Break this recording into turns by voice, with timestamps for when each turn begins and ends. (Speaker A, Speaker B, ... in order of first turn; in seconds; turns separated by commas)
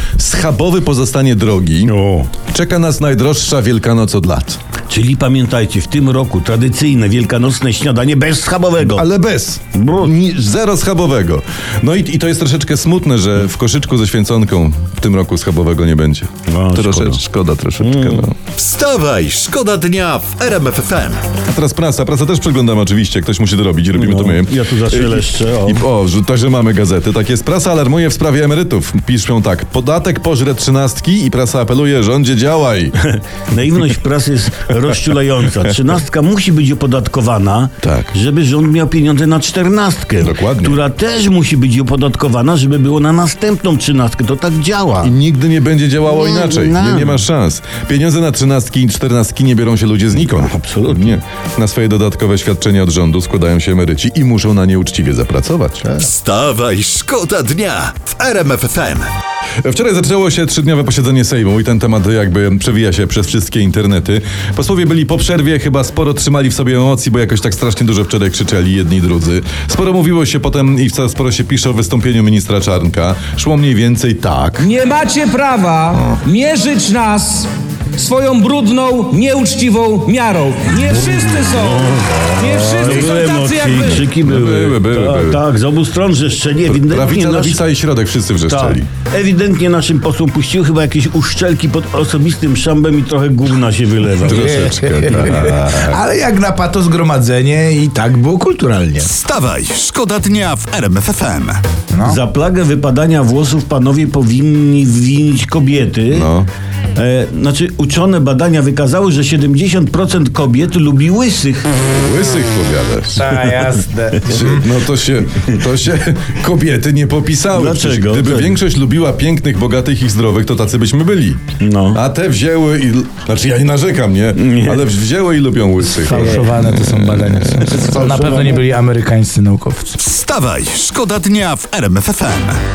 Speaker A: 0.2-1.9, Speaker B: 1.9-2.3, Speaker A: 2.5-4.6, Speaker B: 4.9-9.0, Speaker A: 8.8-18.4, Speaker B: 9.7-10.1, Speaker B: 16.5-17.2, Speaker B: 17.8-18.3, Speaker C: 18.5-21.3, Speaker A: 21.5-32.9, Speaker B: 23.9-25.8, Speaker B: 33.0-45.1, Speaker A: 37.8-38.1, Speaker A: 40.2-40.8, Speaker A: 45.0-56.0, Speaker B: 46.0-47.2, Speaker B: 50.2-51.2, Speaker C: 56.0-59.1, Speaker A: 59.6-74.7, Speaker D: 74.6-84.0, Speaker B: 80.9-87.6, Speaker A: 83.9-85.4, Speaker A: 86.7-88.9, Speaker B: 88.4-95.4, Speaker A: 94.2-96.0, Speaker E: 94.3-99.1, Speaker C: 99.0-101.6, Speaker E: 101.9-102.2, Speaker B: 102.0-106.3, Speaker A: 106.1-106.5, Speaker B: 107.0-111.7, Speaker A: 111.9-113.2, Speaker E: 113.2-114.6, Speaker A: 114.2-121.4, Speaker B: 117.5-118.6, Speaker B: 121.6-122.0, Speaker A: 121.9-127.9, Speaker B: 124.3-124.9, Speaker E: 125.9-130.0, Speaker B: 127.7-128.6, Speaker C: 130.0-132.6